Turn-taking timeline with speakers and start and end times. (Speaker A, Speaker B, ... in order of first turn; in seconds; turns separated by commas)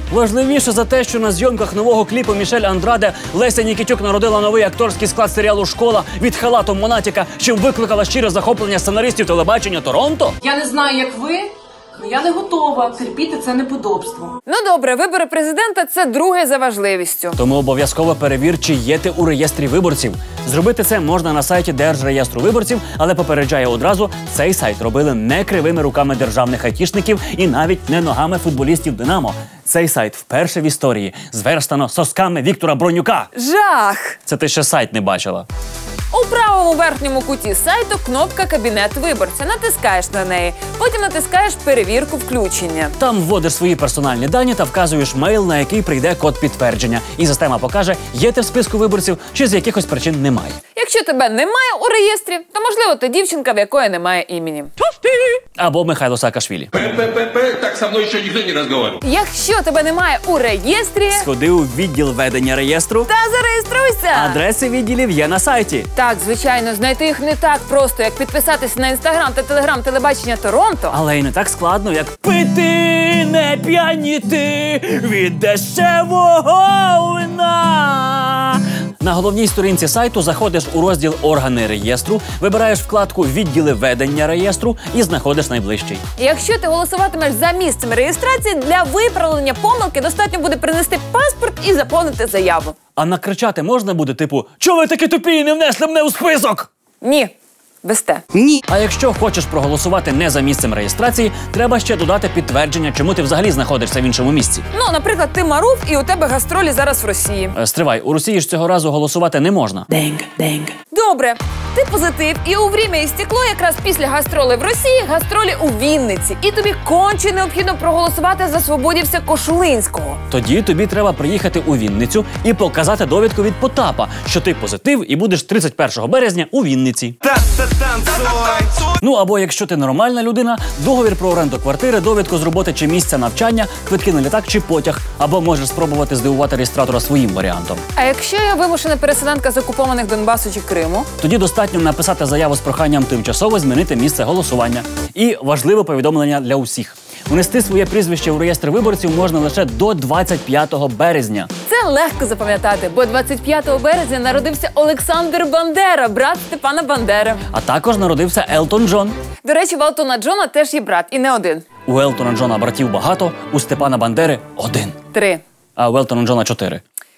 Speaker A: 0.1-10.4, Speaker B: 10.4-14.4, Speaker C: 14.5-17.4, Speaker A: 17.4-33.3, Speaker C: 33.4-34.2, Speaker A: 34.3-35.5, Speaker C: 36.1-42.9, Speaker A: 43.0-50.6, Speaker C: 50.8-54.7, Speaker A: 55.6-56.7, Speaker D: 56.8-59.0, Speaker C: 59.0-61.3, Speaker A: 61.1-63.1, Speaker C: 63.1-64.4, Speaker A: 64.1-65.9, Speaker C: 66.0-71.0, Speaker A: 70.9-86.0, Speaker C: 86.2-92.8, Speaker A: 93.0-96.7, Speaker C: 97.0-97.3, Speaker C: 97.8-98.2, Speaker A: 98.7-104.7, Speaker C: 104.7-107.5, Speaker A: 107.5-109.9, Speaker B: 109.9-110.7, Speaker C: 110.9-120.2, Speaker A: 120.3-127.2, Speaker D: 127.3-128.9, Speaker A: 129.0-137.8, Speaker C: 138.0-141.1, Speaker A: 141.2-151.5, Speaker C: 151.7-157.4, Speaker A: 157.5-159.2, Speaker C: 159.4-161.7, Speaker A: 161.9-165.0, Speaker C: 165.1-165.4, Speaker A: 165.8-166.8